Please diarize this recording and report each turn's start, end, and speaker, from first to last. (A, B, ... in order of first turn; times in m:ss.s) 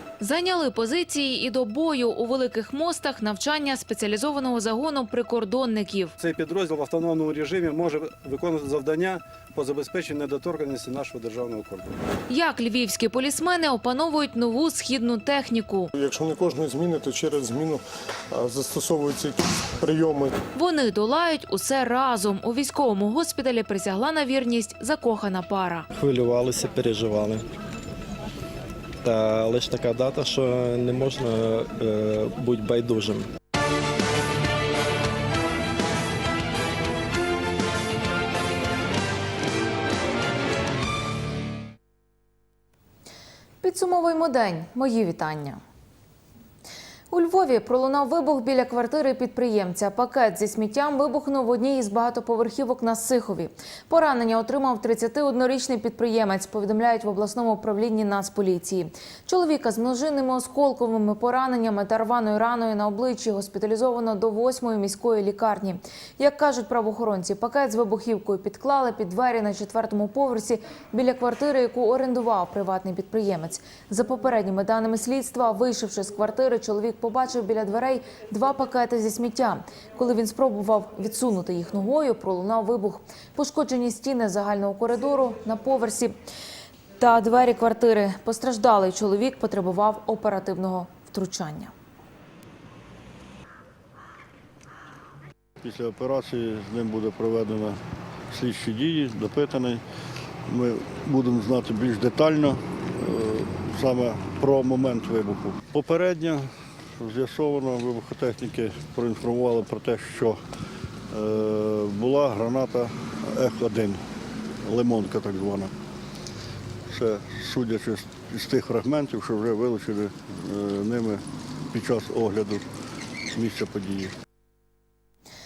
0:00.2-0:06.2 A
0:06.2-0:11.9 B
0:12.3-0:15.9 A
0:15.9-0:20.3 C
0:20.5-0:25.8 A
0:25.9-0:27.4 D
0:29.0-0:33.3 D
0:43.6-0:45.6 A
0:47.1-1:26.1 A
1:27.0-1:31.7 A
1:35.6-1:37.8 E
1:38.3-1:39.8 E
1:40.5-1:50.4 E
1:51.1-1:54.0 E
1:54.6-1:55.7 E
1:56.9-2:02.6 E
2:03.3-2:04.1 E